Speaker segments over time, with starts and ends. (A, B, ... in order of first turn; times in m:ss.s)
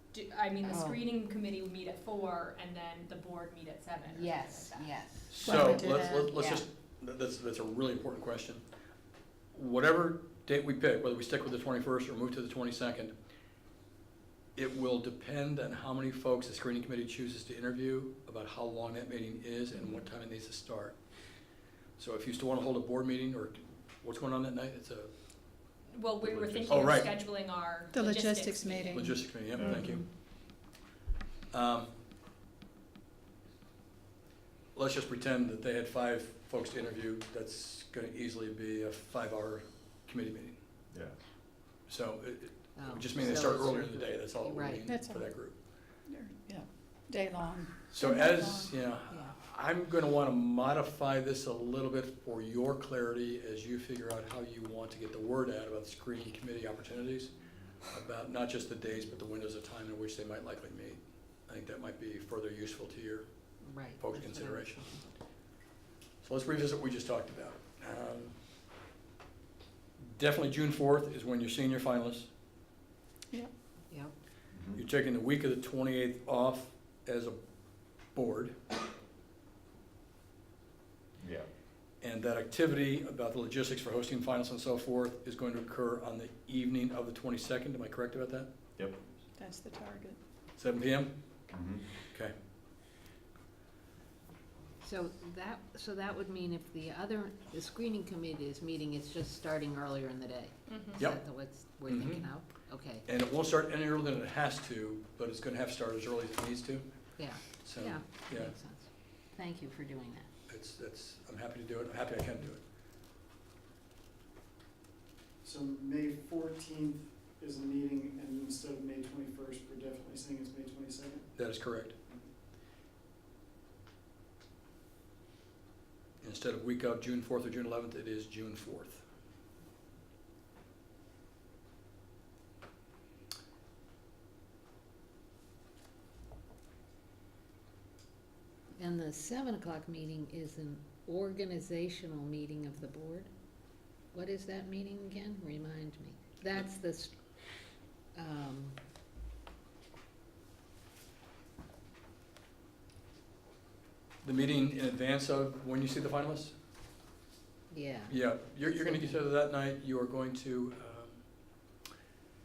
0:00.1-0:05.1 A
0:00.6-0:01.1 B
0:04.0-0:05.8 B
0:05.3-0:08.6 C
0:05.4-0:06.3 D
0:06.3-0:06.6 B
0:09.5-0:13.1 C
0:14.5-0:21.0 C
0:22.0-0:25.1 C
0:25.9-0:29.3 A
0:26.3-0:26.7 E
0:26.7-0:27.3 C
0:27.9-0:29.2 D
0:28.9-0:30.0 C
0:29.5-0:29.9 E
0:31.5-0:32.0 C
0:34.7-0:40.6 C
0:40.9-0:41.2 E
0:41.8-0:45.6 C
0:42.7-0:44.9 B
0:44.8-0:45.4 D
0:46.0-0:48.7 D
0:47.9-1:03.3 C
0:49.1-0:49.4 B
1:03.6-1:05.1 B
1:04.0-1:04.8 C
1:06.2-1:08.3 C
1:10.1-1:12.3 C
1:14.5-1:14.8 E
1:14.7-1:17.4 C
1:17.9-1:18.5 C
1:21.2-1:21.5 E
1:22.0-1:28.5 C
1:29.4-1:30.2 D
1:30.6-1:31.1 C
1:31.5-1:31.9 E
1:34.8-1:43.0 B
1:40.7-1:41.0 A
1:41.9-1:42.3 C
1:43.0-1:48.5 C
1:47.2-1:50.3 B
1:50.5-1:52.6 C
1:55.4-2:01.4 F
2:01.4-2:01.9 C
2:02.0-2:02.3 F
2:06.2-2:09.0 C
2:18.8-2:23.3 B
2:24.1-2:27.1 B
2:28.1-2:28.8 B
2:34.2-2:36.5 C
2:37.7-2:39.2 B
2:38.1-2:41.2 C